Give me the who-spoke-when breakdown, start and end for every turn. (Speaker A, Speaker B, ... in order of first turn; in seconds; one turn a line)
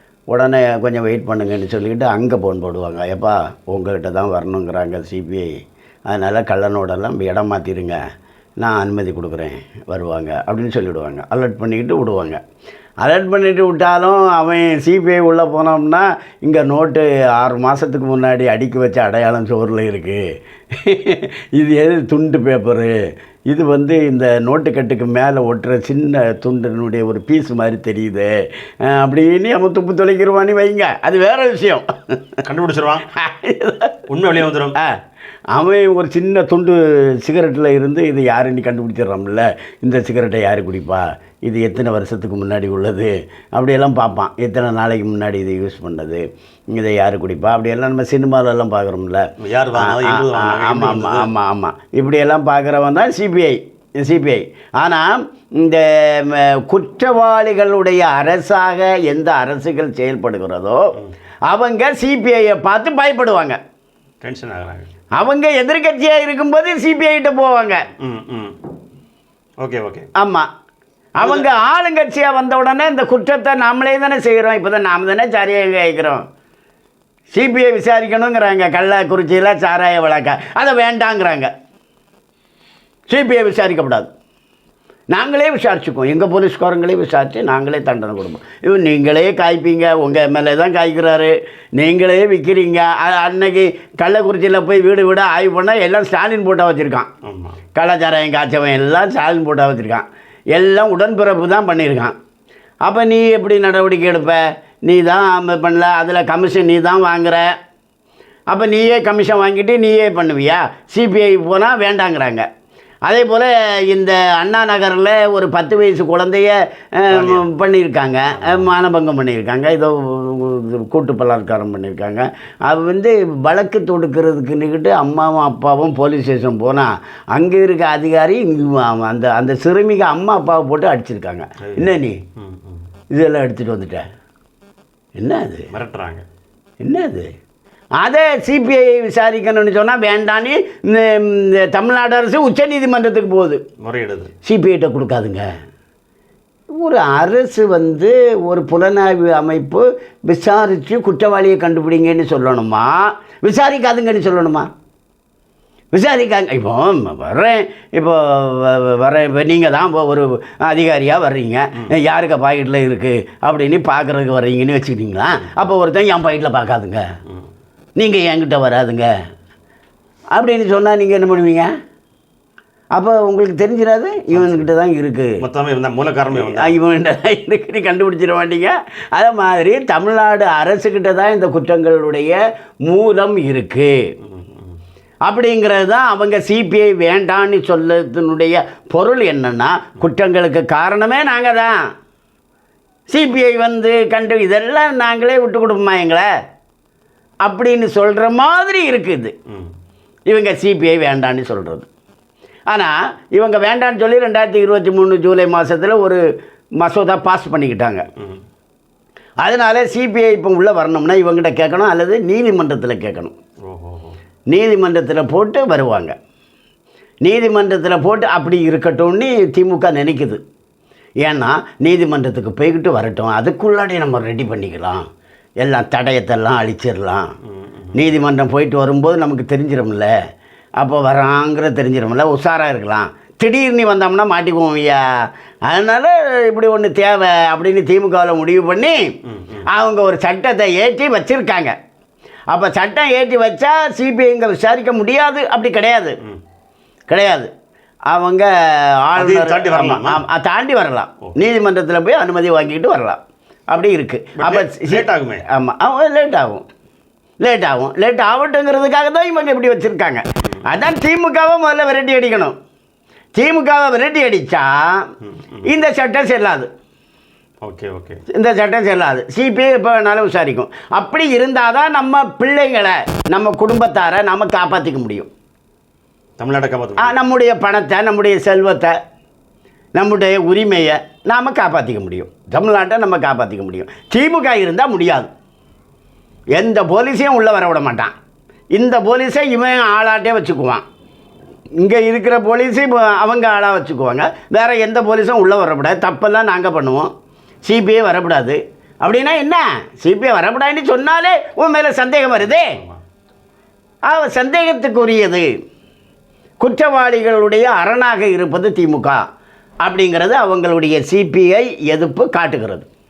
Speaker A: 0.3-5.5
Speaker A: 6.1-8.0
Speaker A: 8.6-12.4
Speaker A: 13.0-22.9
Speaker A: 23.5-32.2
Speaker B: 32.4-33.0
Speaker A: 33.1-34.0
Speaker B: 34.1-34.8
Speaker A: 35.5-60.8
Speaker B: 49.4-51.3
Speaker A: 61.5-63.6
Speaker B: 64.2-64.9
Speaker A: 65.2-67.9
Speaker B: 68.0-68.6
Speaker B: 69.6-70.1
Speaker A: 70.2-70.5
Speaker A: 71.2-76.2
Speaker B: 71.2-71.5
Speaker A: 77.3-81.5
Speaker A: 83.1-84.1
Speaker A: 85.1-97.1
Speaker B: 97.2-97.6
Speaker A: 97.7-102.1
Speaker A: 102.8-107.5
Speaker A: 108.5-112.5
Speaker A: 113.1-132.2
Speaker B: 117.1-117.5
Speaker B: 118.3-118.7
Speaker B: 131.7-132.8
Speaker A: 133.1-134.0
Speaker A: 135.2-135.7
Speaker B: 135.7-136.2
Speaker A: 136.8-137.3
Speaker A: 138.0-143.6
Speaker B: 143.8-144.3
Speaker A: 144.4-145.4
Speaker A: 146.8-154.7
Speaker A: 155.9-167.0
Speaker A: 168.0-169.1
Speaker A: 170.3-171.7
Speaker A: 172.9-175.4
Speaker B: 174.3-174.7
Speaker B: 175.4-176.7
Speaker A: 176.3-183.9
Speaker B: 184.2-184.7
Speaker A: 185.2-191.8
Speaker A: 193.1-196.3
Speaker A: 197.4-199.3
Speaker A: 200.3-201.9
Speaker A: 202.7-206.2
Speaker A: 206.8-208.0
Speaker A: 209.4-213.3
Speaker B: 213.7-214.2
Speaker A: 214.5-216.1
Speaker A: 217.2-220.4
Speaker A: 221.2-225.0
Speaker A: 225.6-227.3
Speaker B: 227.6-228.1
Speaker A: 227.9-230.1
Speaker A: 230.8-239.0
Speaker B: 239.2-239.7
Speaker A: 239.7-241.7
Speaker A: 242.5-246.2
Speaker A: 247.1-247.5
Speaker A: 248.1-256.6
Speaker B: 249.2-250.2
Speaker B: 254.4-255.4
Speaker A: 257.4-262.5
Speaker A: 263.3-265.1
Speaker B: 265.2-265.7
Speaker A: 265.6-266.7
Speaker B: 267.6-268.2
Speaker A: 268.3-275.3
Speaker B: 276.4-277.2
Speaker A: 277.0-278.9
Speaker A: 279.9-285.3
Speaker A: 286.6-288.1
Speaker A: 288.7-290.8
Speaker A: 291.8-297.1
Speaker A: 297.6-302.8
Speaker B: 302.5-303.0
Speaker A: 304.1-305.5
Speaker A: 306.6-309.2
Speaker A: 309.8-312.9